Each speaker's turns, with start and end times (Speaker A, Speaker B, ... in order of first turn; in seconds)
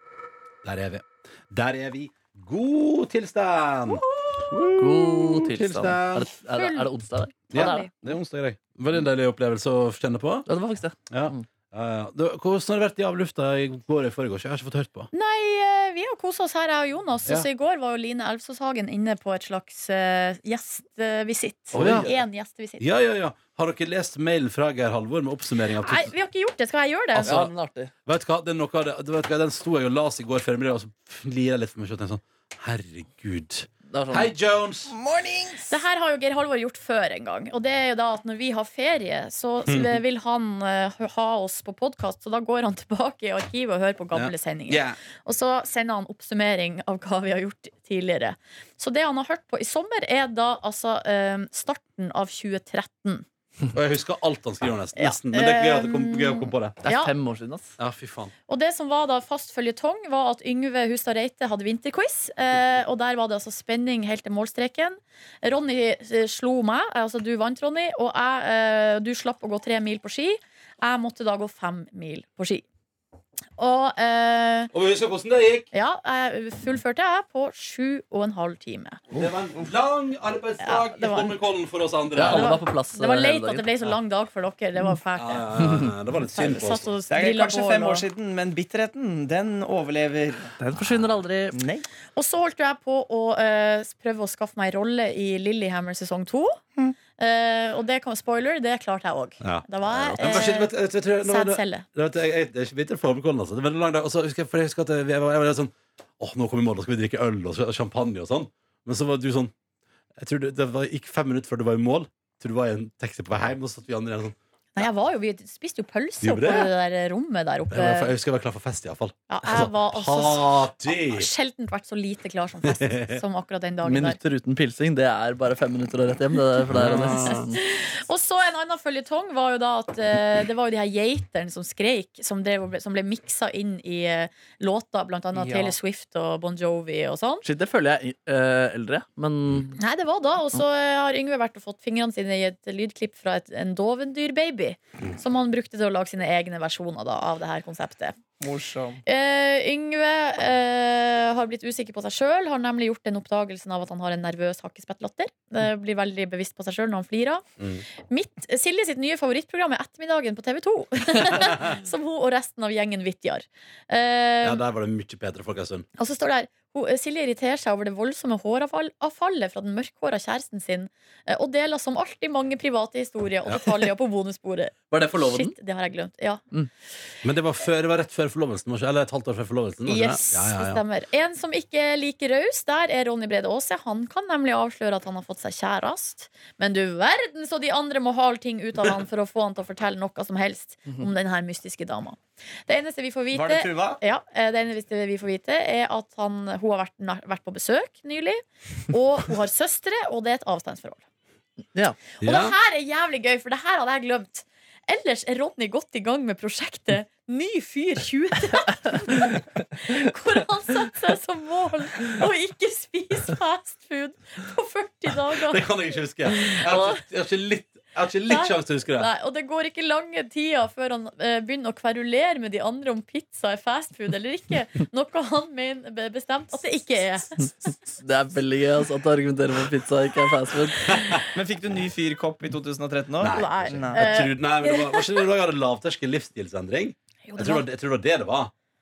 Speaker A: 0.6-6.3, 7.5-10.5, 11.1-15.1, 21.7-22.1, 22.8-26.1, 27.1-27.5, 28.1-34.9, 44.1-45.0, 53.7-56.8, 57.8-58.3, 74.7-75.7, 79.1-82.6, 85.2-86.9, 90.8-91.2, 99.4-109.5, 110.2-114.9, 116.2-116.7, 117.7-121.3, 122.6-123.2, 126.7-127.4, 157.6-157.8, 164.4-165.9, 173.4-173.8, 177.2-180.8, 202.2-202.6, 215.4-219.1, 233.2-238.5
Speaker B: 4.8-7.8, 10.5-11.4, 21.7-22.2, 27.2-27.9, 33.9-34.3, 56.8-57.8, 82.1-83.7, 85.6-85.9, 90.6-91.6, 99.9-100.5, 123.8-127.6, 135.3-135.8, 137.4-139.8, 174.9-175.5, 227.9-231.0
Speaker C: 6.5-6.9, 7.5-7.9, 15.1-22.8, 25.8-27.3, 35.7-53.2, 55.0-57.1, 58.5-72.6, 73.6-74.7, 75.7-79.0, 80.6-81.4, 82.1-85.5, 86.3-88.1, 92.2-96.6, 97.2-101.9, 114.8-118.1, 119.3-124.2, 126.9-137.4, 139.8-148.2, 149.1-157.4, 158.1-164.6, 166.0-176.4, 179.9-201.0, 202.2-215.7, 216.3-217.0, 218.3-227.8, 230.9-231.2, 233.3-235.3, 237.3-237.7
Speaker D: 34.9-35.8, 87.1-90.6, 91.5-91.9, 148.4-149.0, 193.3-194.0, 231.3-234.2